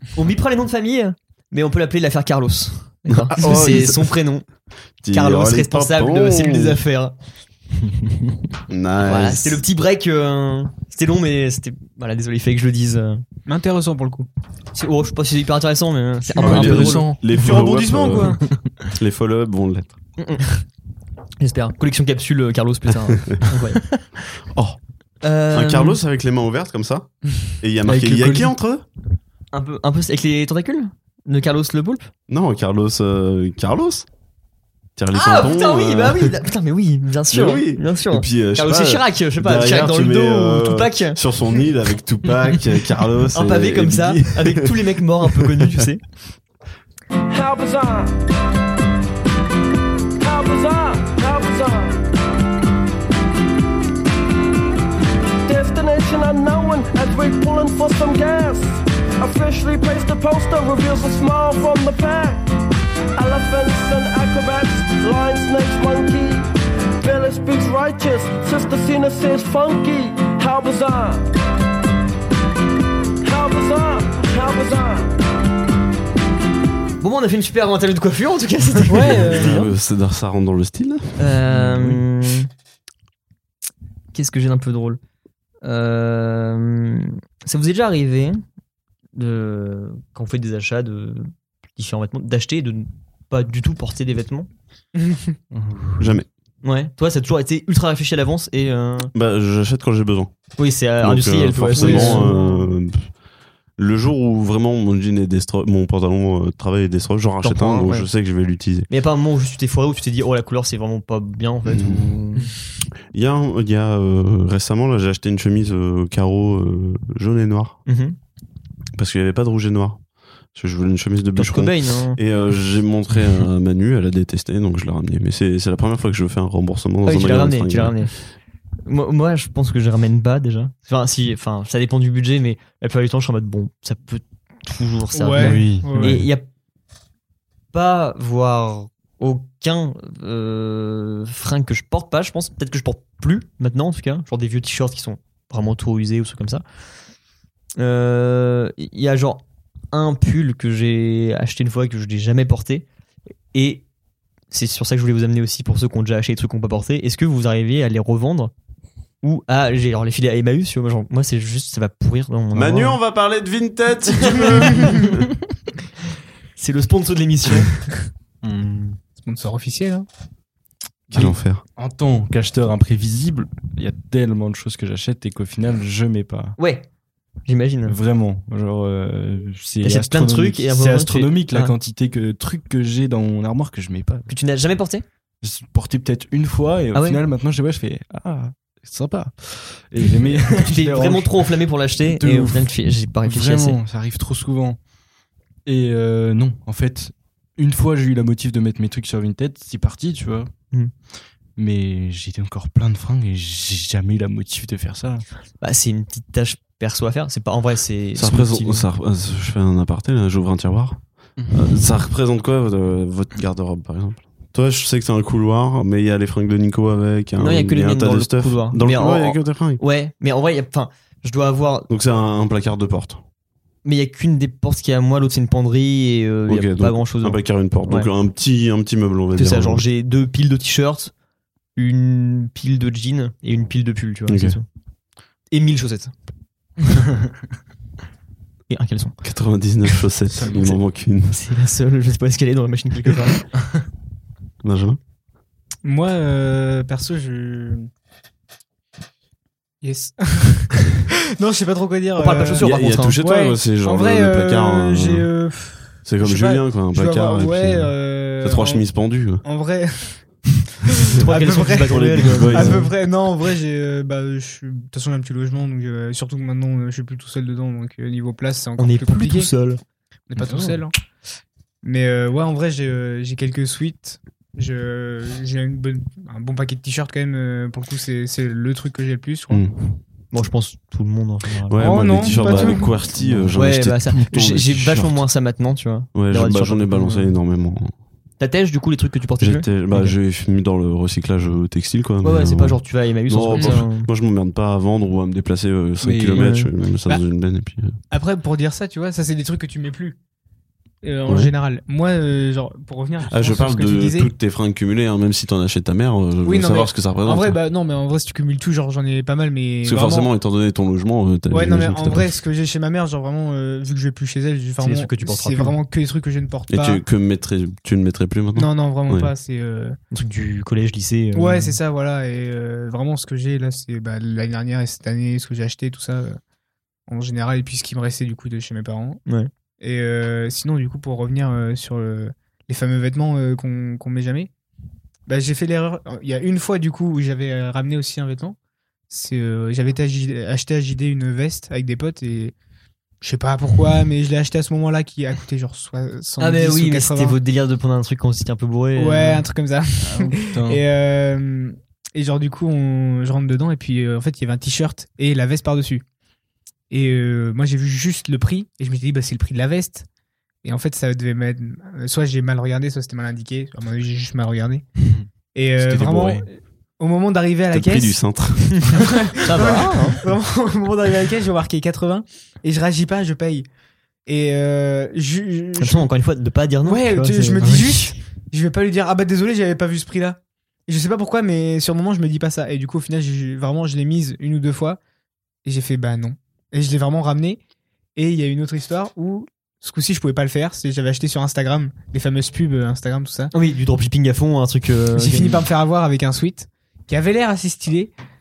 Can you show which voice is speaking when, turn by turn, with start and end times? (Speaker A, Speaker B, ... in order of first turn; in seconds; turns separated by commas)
Speaker A: 0.1-4.5, Speaker B: 3.1-4.1, Speaker B: 5.0-6.8, Speaker A: 5.1-7.2, Speaker B: 8.7-9.6, Speaker A: 9.0-13.2, Speaker C: 13.5-14.3, Speaker A: 14.7-18.3, Speaker B: 16.4-19.9, Speaker C: 16.4-16.7, Speaker D: 16.4-17.6, Speaker C: 17.3-18.4, Speaker A: 20.2-20.5, Speaker A: 21.4-23.8, Speaker B: 24.5-24.8, Speaker A: 25.2-26.0, Speaker B: 25.5-28.9, Speaker A: 27.9-28.5, Speaker A: 29.5-32.1, Speaker B: 32.3-34.1, Speaker B: 35.0-36.3, Speaker A: 35.1-41.2, Speaker B: 37.3-44.8, Speaker A: 43.3-46.0, Speaker E: 47.3-48.1, Speaker E: 50.2-52.0, Speaker E: 55.4-62.5, Speaker E: 63.2-66.5, Speaker E: 67.0-71.3, Speaker E: 73.2-75.1, Speaker A: 77.0-79.5, Speaker C: 78.9-79.7, Speaker B: 79.0-81.3, Speaker A: 81.2-82.5, Speaker D: 81.5-82.0, Speaker A: 84.1-85.0, Speaker A: 85.6-88.4, Speaker A: 89.2-94.5, Speaker C: 95.1-95.3, Speaker D: 95.5-96.2, Speaker B: 96.0-96.3, Speaker A: 96.6-99.1, Speaker B: 99.1-103.1, Speaker A: 100.6-102.3, Speaker C: 101.8-102.5, Speaker B: 103.8-108.9, Speaker A: 107.4-108.1, Speaker A: 108.9-112.5, Speaker B: 111.7-112.1, Speaker B: 113.1-117.8, Speaker A: 117.9-118.2, Speaker B: 119.0-120.0, Speaker B: 120.5-128.1, Speaker A: 121.4-122.2, Speaker A: 127.0-128.1, Speaker A: 128.9-136.5, Speaker C: 135.1-136.2, Speaker D: 135.4-136.3, Speaker A: 137.7-146.6, Speaker A: 147.8-152.9, Speaker A: 153.5-153.8, Speaker A: 154.5-158.5, Speaker A: 159.2-163.0, Speaker B: 162.5-165.2, Speaker A: 164.3-164.7, Speaker A: 166.6-167.7, Speaker D: 168.4-169.0, Speaker C: 169.2-170.1, Speaker B: 171.1-171.6, Speaker D: 171.1-176.6, Speaker A: 176.6-176.9, Speaker A: 177.5-177.9, Speaker D: 177.9-184.3, Speaker A: 179.8-181.7, Speaker A: 184.3-185.0, Speaker D: 185.4-191.5, Speaker A: 186.9-187.2, Speaker A: 190.5-193.8, Speaker D: 192.0-192.7, Speaker D: 193.2-194.8, Speaker D: 195.7-200.5, Speaker D: 201.6-205.2, Speaker A: 205.6-208.9, Speaker B: 208.2-219.8, Speaker D: 211.4-211.8, Speaker A: 217.4-221.9, Speaker B: 221.9-223.2, Speaker A: 223.8-228.1, Speaker B: 226.5-229.8, Speaker A: 229.3-231.1, Speaker A: 231.8-234.7, Speaker B: 234.3-234.6, Speaker A: 235.5-236.1, Speaker A: 238.7-239.2, Speaker B: 239.2-241.4, Speaker D: 240.3-240.7, Speaker A: 241.3-243.4, Speaker B: 244.6-245.0, Speaker C: 245.8-247.9, Speaker C: 249.8-258.9, Speaker A: 252.2-253.2, Speaker B: 252.6-255.3, Speaker B: 256.1-259.4, Speaker C: 259.4-260.3, Speaker B: 261.1-262.9, Speaker C: 261.2-269.5, Speaker A: 261.2-262.9, Speaker A: 268.8-269.8, Speaker C: 270.3-270.9, Speaker D: 270.4-270.8, Speaker C: 271.8-279.6, Speaker B: 279.5-280.0, Speaker A: 280.3-282.8, Speaker B: 281.7-285.2, Speaker C: 281.8-283.0, Speaker D: 283.2-283.5, Speaker A: 283.5-287.3, Speaker B: 286.1-287.9, Speaker A: 288.4-290.1, Speaker B: 289.4-298.0, Speaker A: 292.2-294.1, Speaker D: 296.0-296.5, Speaker A: 296.4-296.7, Speaker C: 298.1-300.2, Speaker C: 301.0-304.3, Speaker B: 301.3-301.5, Speaker B: 303.3-307.6, Speaker C: 306.4-310.3, Speaker B: 309.8-312.4, Speaker C: 311.5-317.0, Speaker A: 314.8-315.8, Speaker B: 316.7-319.3, Speaker C: 318.6-320.0, Speaker A: 320.1-321.8, Speaker C: 321.3-326.4, Speaker C: 327.1-329.2, Speaker C: 329.8-334.5, Speaker C: 335.3-338.6, Speaker C: 339.1-342.5, Speaker C: 343.2-347.4, Speaker A: 346.4-349.4, Speaker C: 349.0-356.0, Speaker D: 350.0-350.8, Speaker C: 356.9-360.1, Speaker C: 360.6-364.9, Speaker D: 365.0-366.5, Speaker C: 365.5-368.2, Speaker B: 367.7-369.0, Speaker C: 369.0-373.7, Speaker A: 369.5-370.2, Speaker C: 374.3-376.1, Speaker A: 375.8-378.1, Speaker C: 376.8-385.0, Speaker D: 377.6-377.9, Speaker C: 385.6-387.6, Speaker C: 388.2-393.5, Speaker A: 393.5-395.6, Speaker C: 395.1-398.1